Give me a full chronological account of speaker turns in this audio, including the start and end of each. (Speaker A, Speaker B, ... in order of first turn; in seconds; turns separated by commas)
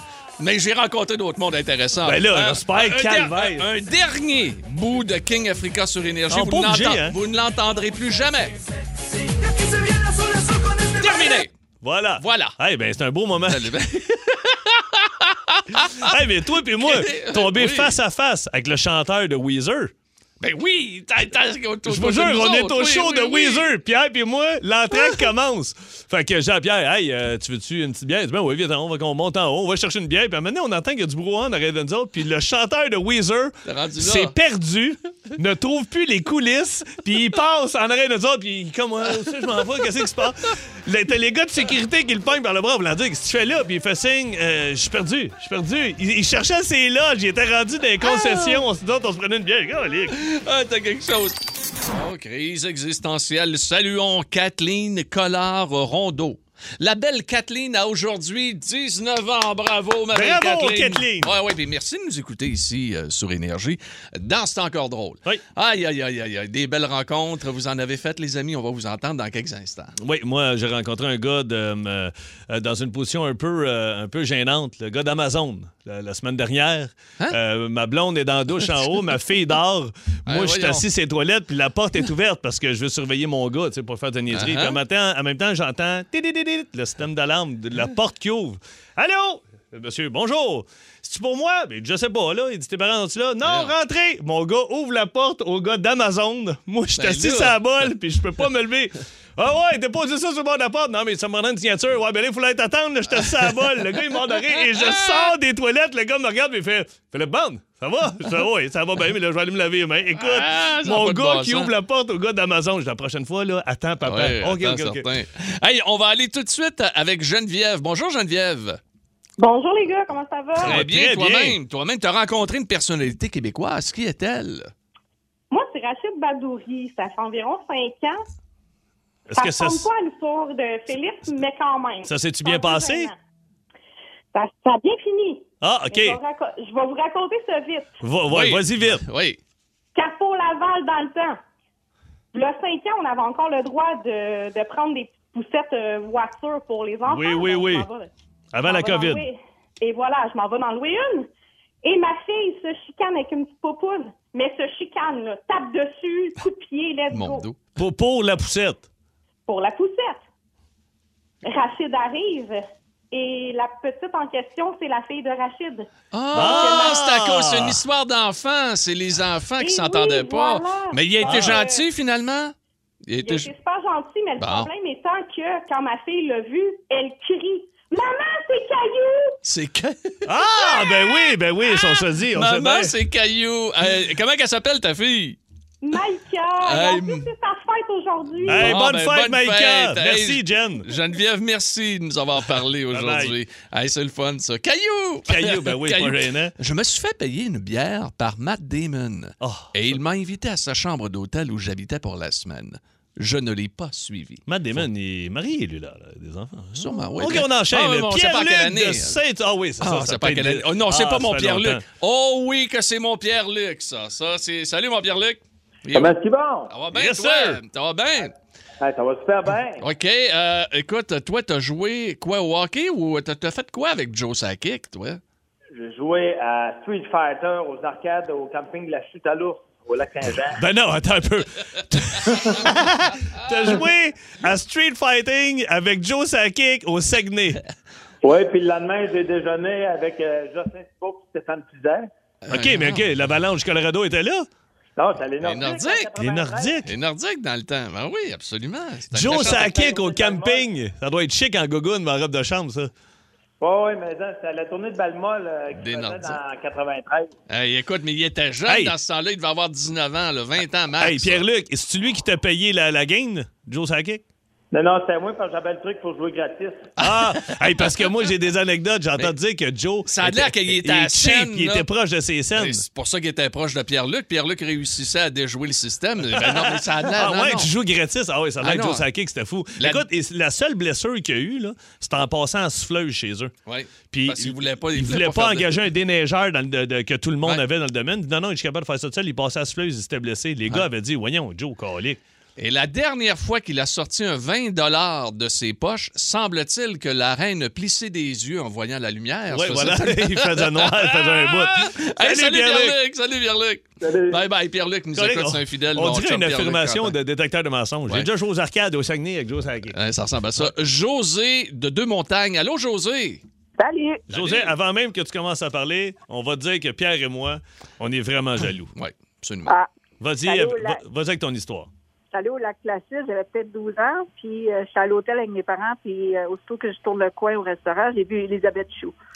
Speaker A: 0.4-8.6, Speaker B: 2.0-3.7, Speaker B: 6.3-7.2, Speaker A: 10.8-11.5, Speaker B: 11.8-14.3, Speaker A: 12.2-12.6, Speaker A: 13.5-17.9, Speaker B: 15.8-19.9, Speaker A: 20.4-23.7, Speaker B: 21.9-50.2, Speaker A: 33.6-34.3, Speaker A: 48.1-48.5, Speaker A: 50.1-69.9, Speaker B: 60.1-61.4, Speaker B: 70.0-115.1, Speaker A: 80.3-80.8, Speaker A: 84.3-84.8, Speaker A: 93.4-93.7, Speaker A: 97.0-97.6, Speaker A: 104.7-105.3, Speaker A: 110.2-111.7, Speaker A: 114.0-118.8, Speaker C: 119.4-120.8, Speaker B: 120.6-121.6, Speaker A: 120.6-124.7, Speaker C: 125.5-128.2, Speaker B: 129.3-129.9, Speaker C: 129.3-133.2, Speaker B: 132.1-133.1, Speaker C: 134.3-137.9, Speaker B: 135.6-136.2, Speaker B: 138.0-139.0, Speaker A: 138.3-139.4, Speaker C: 139.9-141.4, Speaker C: 142.3-148.1, Speaker B: 147.1-147.8, Speaker B: 148.5-149.2, Speaker C: 148.6-151.3, Speaker C: 151.8-157.4, Speaker A: 157.1-157.6, Speaker B: 157.8-158.9, Speaker C: 159.5-160.2, Speaker C: 161.4-167.0, Speaker A: 166.1-173.5, Speaker B: 166.3-167.8, Speaker C: 169.6-171.8, Speaker B: 171.2-171.6, Speaker C: 173.2-179.3, Speaker A: 174.4-174.7, Speaker A: 179.4-180.2, Speaker B: 180.2-182.9, Speaker C: 180.5-181.3, Speaker A: 182.3-185.4, Speaker C: 185.8-188.7, Speaker A: 186.6-187.3, Speaker B: 188.4-190.9, Speaker A: 188.5-204.8, Speaker B: 192.6-193.4, Speaker B: 195.2-196.5, Speaker B: 199.4-199.9, Speaker B: 204.5-211.8, Speaker A: 206.7-209.2, Speaker A: 209.8-216.1, Speaker D: 215.9-216.7, Speaker A: 216.7-218.3, Speaker B: 216.9-217.6, Speaker D: 218.8-219.8, Speaker A: 219.8-225.2, Speaker D: 225.7-230.6, Speaker B: 230.6-237.6, Speaker D: 238.2-242.1, Speaker A: 242.4-243.1, Speaker B: 242.5-244.5, Speaker D: 245.0-246.8, Speaker A: 245.4-246.1, Speaker B: 246.2-246.9, Speaker A: 246.8-249.7, Speaker B: 249.1-252.9, Speaker D: 249.3-250.6, Speaker D: 253.6-257.3, Speaker A: 255.7-256.4, Speaker A: 257.5-261.4, Speaker B: 258.6-258.9, Speaker B: 261.0-264.2, Speaker D: 264.7-266.9, Speaker B: 267.0-272.8, Speaker A: 267.0-267.9, Speaker A: 270.1-271.9, Speaker A: 272.6-277.7, Speaker B: 276.3-283.5, Speaker A: 278.6-279.1, Speaker A: 279.8-280.0, Speaker A: 283.6-285.8, Speaker B: 284.1-292.2, Speaker A: 292.6-307.1, Speaker B: 299.5-303.0, Speaker D: 304.0-304.4, Speaker B: 305.1-310.0, Speaker A: 309.9-313.4, Speaker E: 313.8-314.2, Speaker A: 314.3-314.7, Speaker B: 314.3-318.9, Speaker A: 318.9-319.7, Speaker B: 320.2-321.9, Speaker E: 320.4-321.0, Speaker E: 322.3-329.1